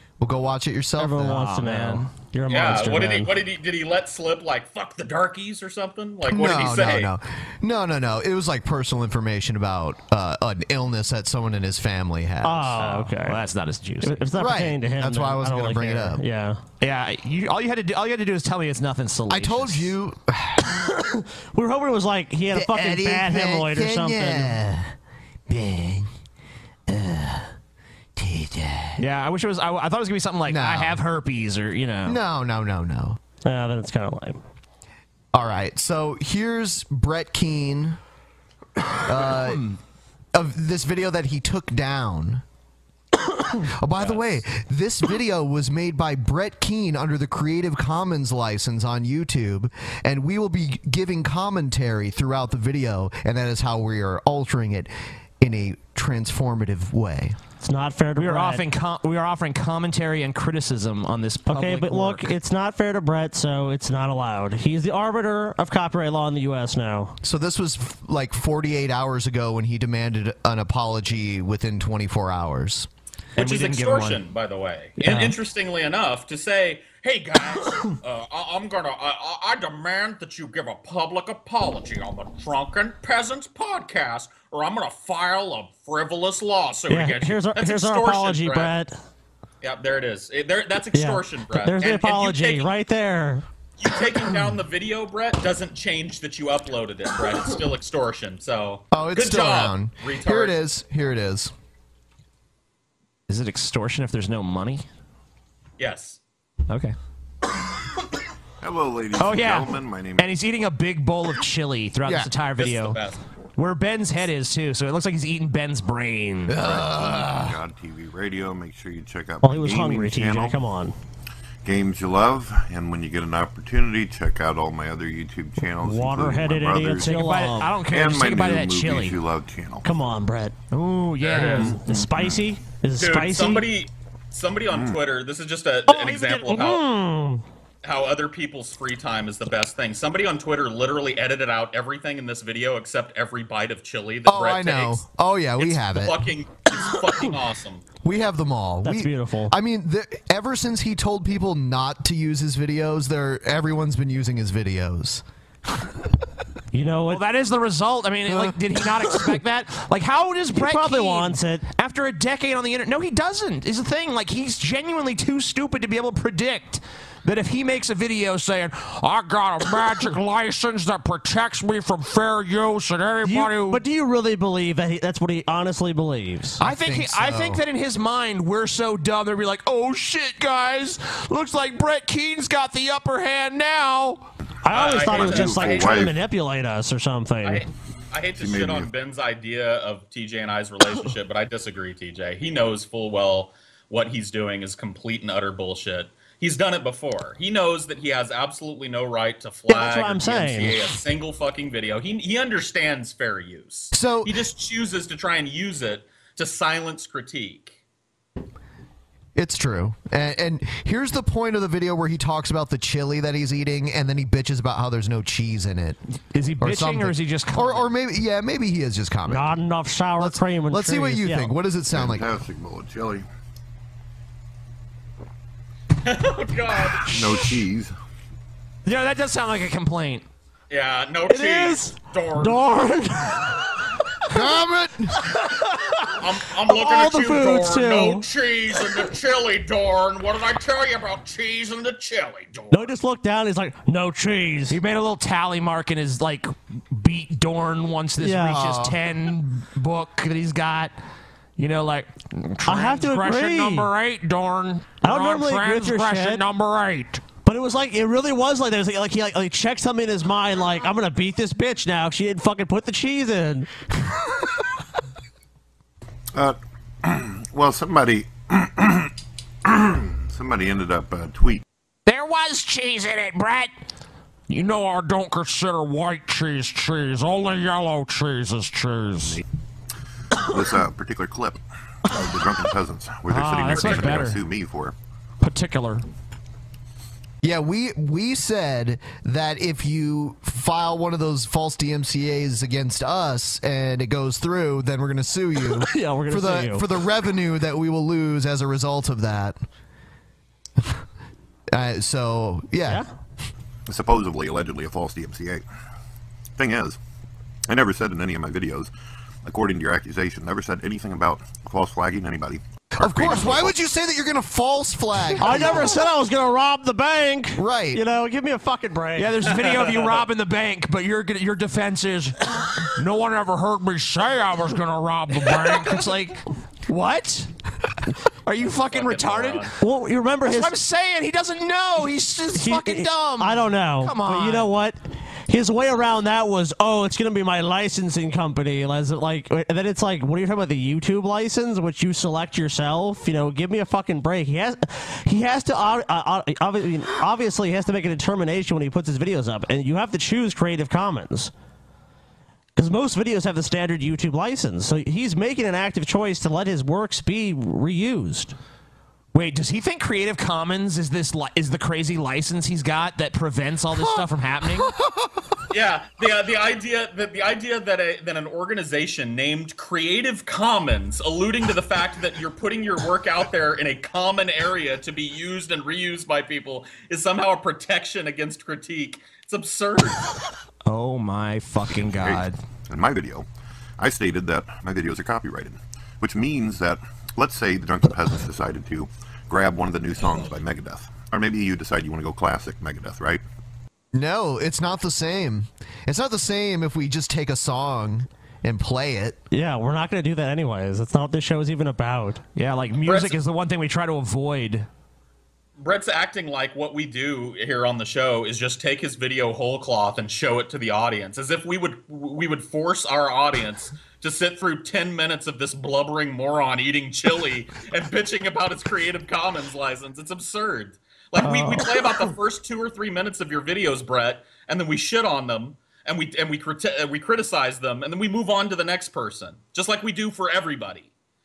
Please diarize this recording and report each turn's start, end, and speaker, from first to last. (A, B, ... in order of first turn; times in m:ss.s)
0:00.2-0:01.5 A
0:01.0-0:03.3 B
0:01.2-0:02.1 C
0:02.5-0:07.1 D
0:06.3-0:12.8 A
0:12.4-0:13.4 B
0:12.8-0:14.2 C
0:14.0-0:16.6 B
0:14.4-0:16.2 A
0:16.8-0:19.9 C
0:19.3-0:20.6 A
0:21.5-0:24.6 B
0:22.5-0:24.9 A
0:25.5-0:26.1 A
0:26.9-0:27.3 A
0:28.2-0:28.9 A
0:29.0-0:32.2 C
0:30.4-0:31.0 A
0:32.0-0:33.2 A
0:33.4-0:34.4 B
0:35.3-0:38.0 A
0:39.0-0:39.7 A
0:40.3-0:42.4 A
0:43.7-0:57.4 A
0:57.6-0:58.6 B
0:58.2-1:02.3 C
1:01.5-1:07.2 B
1:07.2-1:12.9 A
1:13.4-1:14.2 C
1:13.4-1:28.7 D
1:15.0-1:15.3 C
1:26.9-1:28.9 B
1:29.6-1:32.7 D
1:30.9-1:33.4 B
1:33.8-1:40.6 D
1:38.9-1:41.5 A
1:43.3-1:44.8 C
1:45.8-1:46.2 D
1:46.7-1:46.9 C
1:48.6-1:50.3 E
1:49.2-1:53.0 C
1:52.6-1:53.2 D
1:53.6-1:56.6 C
1:56.5-1:57.6 A
1:56.6-2:00.6 E
1:59.4-2:00.9 B
2:01.6-2:07.1 E
2:05.8-2:07.8 B
2:07.0-2:09.2 C
2:07.9-2:09.8 E
2:09.8-2:10.6 B
2:10.7-2:11.8 C
2:11.2-2:11.7 D
2:11.3-2:13.6 B
2:11.4-2:12.4 E
2:13.0-2:16.8 D
2:14.7-2:15.0 E
2:15.9-2:17.4 B
2:17.8-2:25.0 D
2:24.3-2:26.2 A
2:25.6-2:27.8 D
2:28.0-2:35.2 A
2:28.8-2:29.5 B
2:36.7-2:37.2 B
2:37.1-2:53.8 C
2:40.5-2:41.6 B
2:53.2-2:56.6 B
2:56.6-3:04.2 C
2:56.6-2:57.6 A
3:04.6-3:07.6 B
3:04.7-3:06.0 D
3:05.0-3:06.2 E
3:07.4-3:27.8 D
3:08.4-3:08.9 E
3:19.7-3:20.9 B
3:23.9-3:24.3 A
3:29.3-3:36.0 A
3:36.3-3:37.9 C
3:36.6-3:39.6 A
3:39.3-3:41.5 B
3:40.2-3:42.3 A
3:41.9-3:43.2 E
3:46.0-3:47.1 D
3:47.0-3:47.9 E
3:48.8-3:50.2 C
3:50.7-3:52.8 D
3:51.3-3:53.4 B
3:54.3-3:55.2 A
3:56.2-4:02.9 D
3:56.7-3:58.2 B
4:02.7-4:04.8 B
4:04.7-4:10.9 C
4:08.2-4:08.6 B
4:08.4-4:09.0 A
4:11.6-4:17.2 C
4:12.7-4:13.9 B
4:15.0-4:16.4 B
4:17.4-4:23.7 B
4:26.3-4:29.1 E
4:29.6-4:31.6 E
4:32.1-4:33.7 C
4:34.5-4:39.4 C
4:40.4-4:41.6 E
4:42.1-4:44.9 E
4:43.3-4:44.4 C
4:43.7-4:44.1 D
4:45.4-4:46.0 C
4:47.4-4:59.6 A
4:55.9-4:56.8 B
5:01.7-5:03.0 A
5:03.9-5:05.6 E
5:06.6-5:07.0 E
5:07.7-5:08.9 E
5:09.4-5:13.7 E
5:13.0-5:16.0 A
5:15.4-5:19.4 B
5:17.6-5:18.0 A
5:19.2-5:22.4 C
5:22.9-5:27.5 C
5:28.4-5:29.7 C
5:28.9-5:29.7 D
5:29.8-5:30.7 B
5:30.5-5:34.7 C
5:32.6-5:51.5 B
5:52.8-5:58.5 B
5:59.3-6:04.9 C
6:05.7-6:20.2 D
6:20.9-6:22.6 C
6:21.9-6:23.4 E
6:24.0-6:33.4 E
6:34.1-6:39.4 A
6:39.5-6:42.4 B
6:42.6-6:44.9 C
6:43.0-6:43.4 D
6:45.8-7:11.1 D
7:01.4-7:01.8 B